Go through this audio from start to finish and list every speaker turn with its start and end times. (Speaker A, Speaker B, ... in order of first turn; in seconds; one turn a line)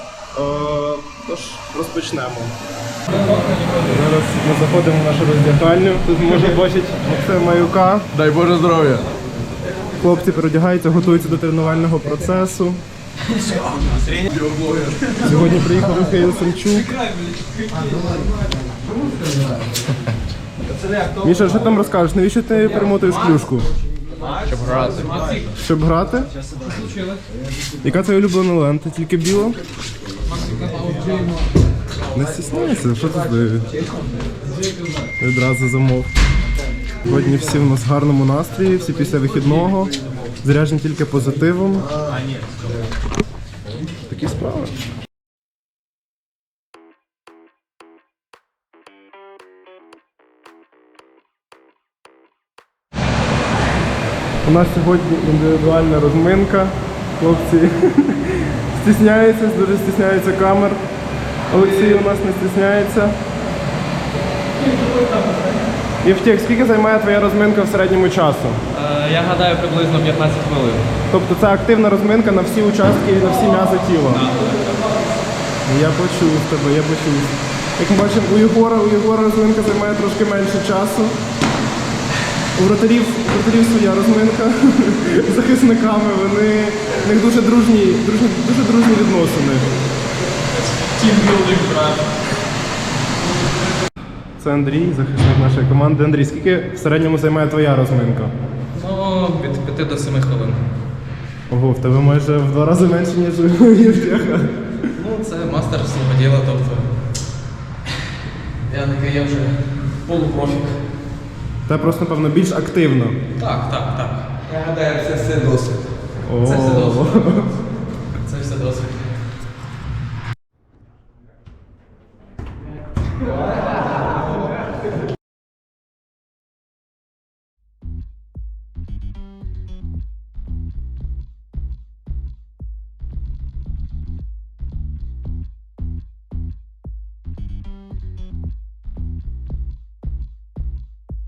Speaker A: 0.3-2.5
Speaker A: 3.7-8.1
Speaker B: 8.1-9.1
Speaker A: 10.0-12.8
Speaker B: 14.1-15.3
Speaker A: 15.2-16.9
Speaker A: 21.1-23.7
Speaker C: 24.4-25.5
Speaker A: 25.5-26.3
Speaker A: 27.8-29.6
Speaker C: 30.5-31.2
Speaker A: 32.1-33.7
Speaker A: 35.2-36.1
Speaker A: 37.0-41.9
Speaker A: 44.1-44.8
Speaker A: 54.4-60.8
Speaker A: 61.5-63.1
Speaker A: 66.0-68.6
Speaker C: 68.7-70.9
Speaker A: 71.1-74.3
Speaker A: 75.7-81.2
Speaker A: 82.5-89.7
Speaker C: 90.8-92.0
Speaker A: 94.4-98.3
Speaker C: 98.7-100.6
Speaker A: 101.5-104.9
Speaker C: 105.0-106.9
Speaker C: 108.7-110.8
Speaker A: 111.7-113.2
Speaker C: 113.4-115.7
Speaker A: 116.2-117.5
Speaker C: 116.4-117.5
Speaker C: 118.2-119.1